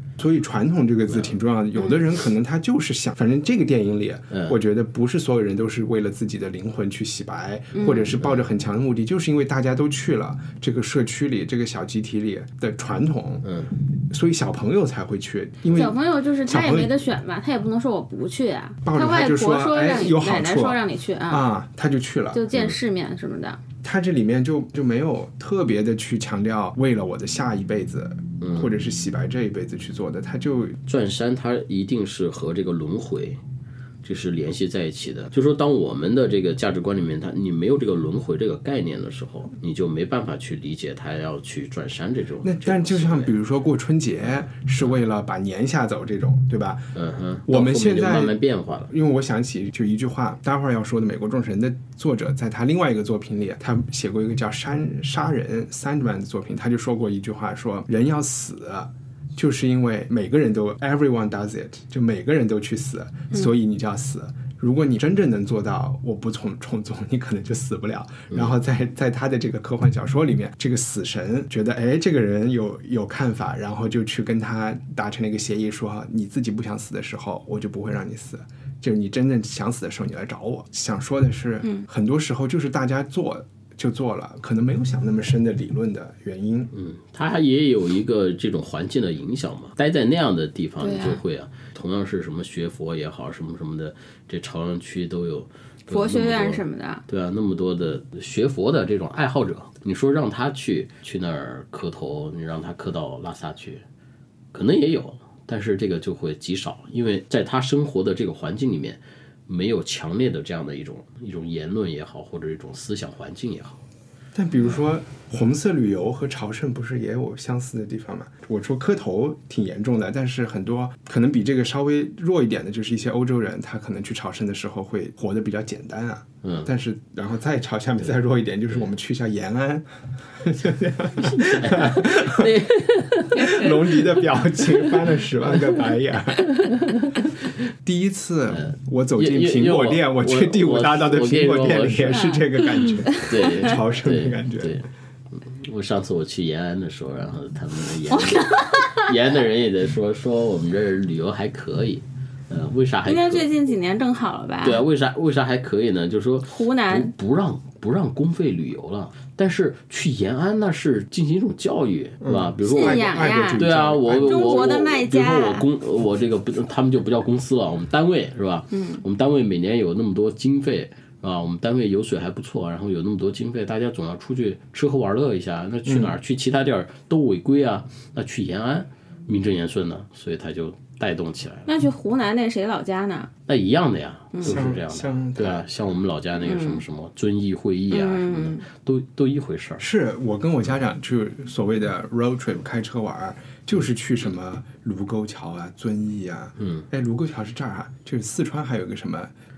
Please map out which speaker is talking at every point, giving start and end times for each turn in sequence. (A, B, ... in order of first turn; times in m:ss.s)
0:00.2-0:13.5 A
0:01.1-0:01.4 B
0:04.3-0:04.6 B
0:07.7-0:08.1 C
0:08.2-0:08.5 B
0:13.4-0:13.7 B
0:14.1-0:16.9 A
0:15.7-0:21.5 C
0:18.8-0:22.4 A
0:22.3-0:23.6 C
0:23.8-0:30.8 A
0:28.4-0:28.7 B
0:30.9-0:33.4 B
0:34.0-0:43.3 B
0:42.4-0:46.9 A
0:47.0-0:48.9 B
0:47.5-0:48.4 A
0:48.9-1:26.7 A
1:26.7-1:43.8 B
1:30.8-1:31.2 C
1:35.9-1:37.0 C
1:44.5-1:53.8 B
1:54.4-2:09.9 A
2:06.4-2:06.7 B
2:10.4-2:12.6 A
2:11.2-2:14.2 B
2:13.3-2:16.5 A
2:15.5-2:15.8 B
2:16.5-2:17.1 B
2:17.8-2:24.8 A
2:18.5-2:22.4 B
2:22.1-2:22.4 C
2:23.1-2:23.5 C
2:23.2-2:33.5 B
2:28.1-2:29.1 C
2:33.1-2:34.8 C
2:34.6-3:01.7 B
2:36.5-2:37.1 C
2:42.2-2:44.7 A
2:42.8-2:45.6 C
2:48.7-2:49.0 C
2:55.9-2:56.1 A
3:01.6-3:03.3 C
3:03.5-3:09.9 B
3:04.4-3:05.7 A
3:06.4-3:06.8 C
3:07.9-3:08.6 C
3:09.8-3:19.3 A
3:16.6-3:16.9 B